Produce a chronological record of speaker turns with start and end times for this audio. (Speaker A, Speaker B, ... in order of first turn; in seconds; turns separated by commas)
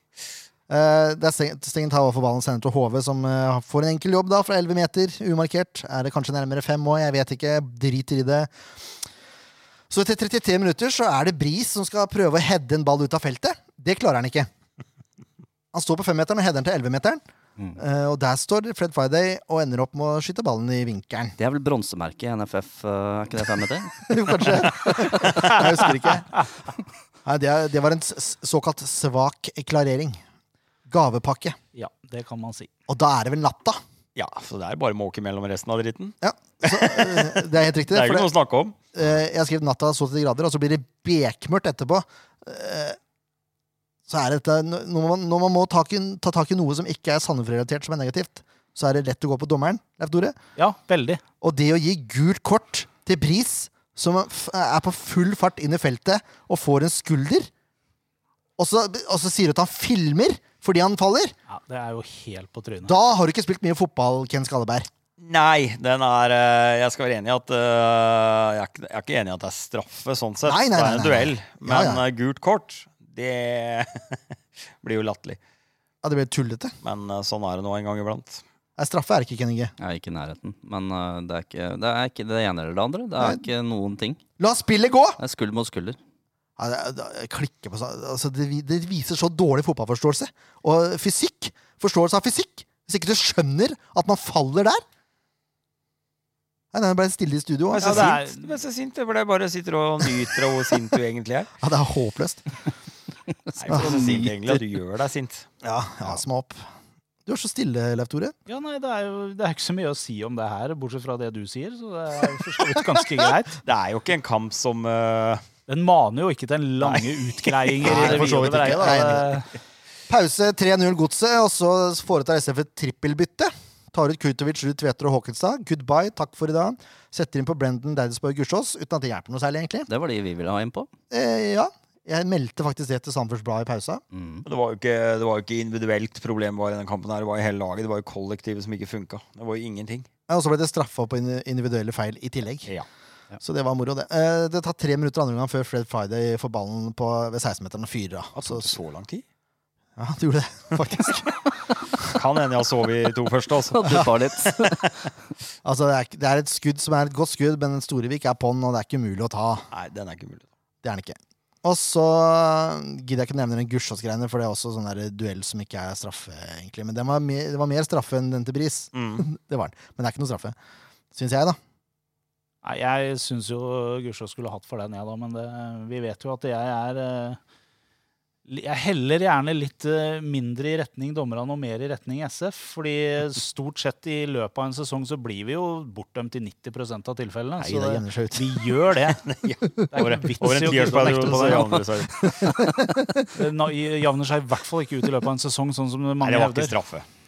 Speaker A: 0.7-8.5, Speaker A: 9.9-14.5, Speaker A: 15.7-17.2, Speaker A: 17.8-21.4, Speaker B: 21.4-24.7, Speaker A: 24.0-26.4, Speaker A: 27.2-30.2, Speaker A: 30.9-31.6, Speaker C: 31.7-32.7, Speaker A: 32.9-33.8, Speaker D: 34.1-38.8, Speaker A: 36.2-38.3, Speaker A: 38.9-43.0, Speaker A: 44.1-50.4, Speaker C: 50.5-51.2, Speaker A: 51.4-57.5, Speaker A: 58.6-61.3, Speaker C: 61.5-62.9, Speaker A: 62.8-64.9, Speaker D: 65.2-74.2, Speaker A: 70.5-72.0, Speaker D: 74.8-75.4, Speaker A: 76.0-76.8, Speaker D: 76.8-78.4, Speaker A: 78.8-79.7, Speaker B: 79.8-84.2, Speaker A: 84.4-85.2, Speaker B: 85.2-86.0, Speaker A: 86.6-94.8, Speaker A: 96.7-98.2, Speaker D: 97.7-101.5, Speaker C: 97.8-98.5, Speaker A: 101.6-102.4, Speaker B: 103.5-104.2, Speaker D: 103.6-105.5, Speaker A: 103.7-104.6, Speaker A: 105.6-106.7, Speaker A: 107.2-108.3, Speaker C: 108.5-113.6, Speaker D: 113.6-115.4, Speaker C: 115.7-119.5, Speaker D: 116.8-119.0, Speaker A: 117.8-119.3, Speaker A: 120.1-129.9, Speaker B: 129.9-130.9, Speaker A: 131.1-134.0, Speaker B: 134.1-134.4, Speaker D: 134.4-140.1, Speaker A: 140.3-142.7, Speaker A: 143.4-148.7, Speaker D: 148.3-149.2, Speaker A: 150.0-151.3, Speaker D: 152.1-154.9, Speaker B: 153.7-154.9, Speaker A: 155.6-159.7, Speaker D: 159.7-160.4, Speaker A: 160.8-170.5, Speaker D: 168.9-169.2, Speaker A: 171.1-171.6, Speaker C: 172.6-177.4, Speaker C: 178.5-189.2, Speaker A: 187.6-188.7, Speaker D: 189.1-192.3, Speaker A: 189.6-189.9, Speaker C: 189.9-191.9, Speaker A: 192.2-193.3, Speaker C: 193.3-196.8, Speaker D: 196.2-197.1